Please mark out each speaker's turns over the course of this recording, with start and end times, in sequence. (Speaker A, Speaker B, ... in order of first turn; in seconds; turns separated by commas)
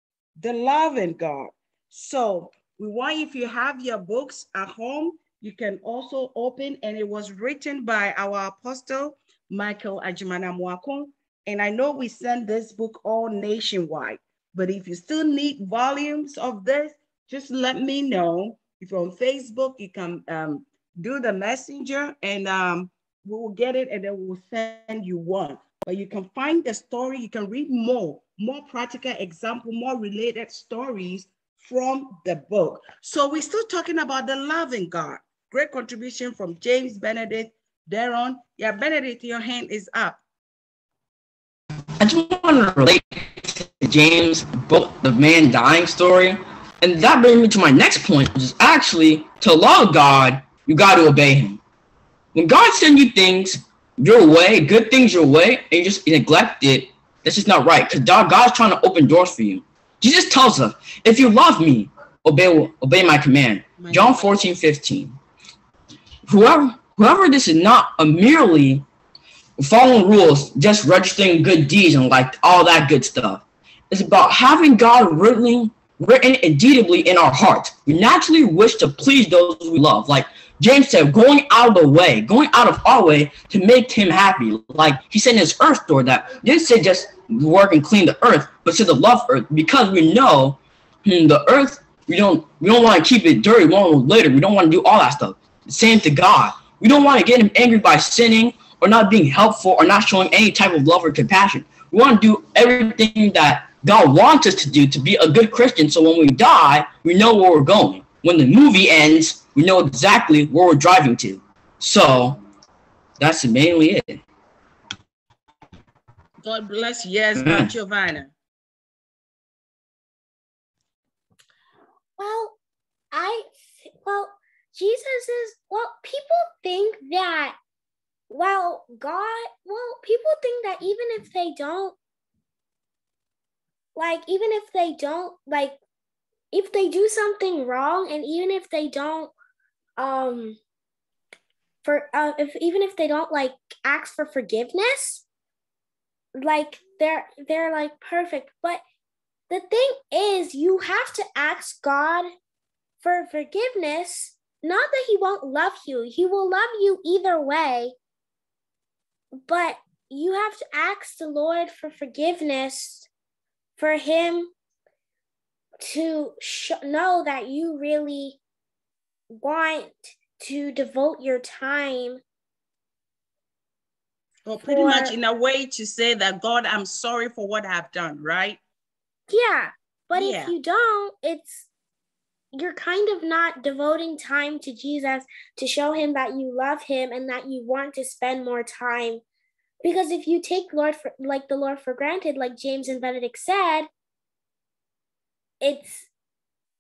Speaker A: 0.4-40.2, Speaker B: 42.0-51.6, Speaker B: 52.3-65.2, Speaker A: 63.8-64.3, Speaker B: 66.3-68.8, Speaker B: 69.6-112.4, Speaker B: 113.2-114.2, Speaker A: 116.4-118.3, Speaker B: 117.4-117.7, Speaker C: 122.2-122.6, Speaker C: 123.1-127.6, Speaker C: 128.3-131.9, Speaker C: 133.9-135.8, Speaker C: 136.5-139.3, Speaker C: 140.0-140.6, Speaker C: 141.8-145.2, Speaker C: 146.4-148.8, Speaker C: 149.5-152.3, Speaker C: 153.0-157.9, Speaker C: 159.4-163.1, Speaker C: 163.8-164.5, Speaker C: 165.8-168.4, Speaker C: 169.3-172.2, Speaker A: 174.4-178.6, Speaker C: 174.6-175.1, Speaker C: 179.3-181.7, Speaker A: 180.1-180.5, Speaker C: 182.5-189.2, Speaker C: 189.8-193.9, Speaker C: 195.6-196.1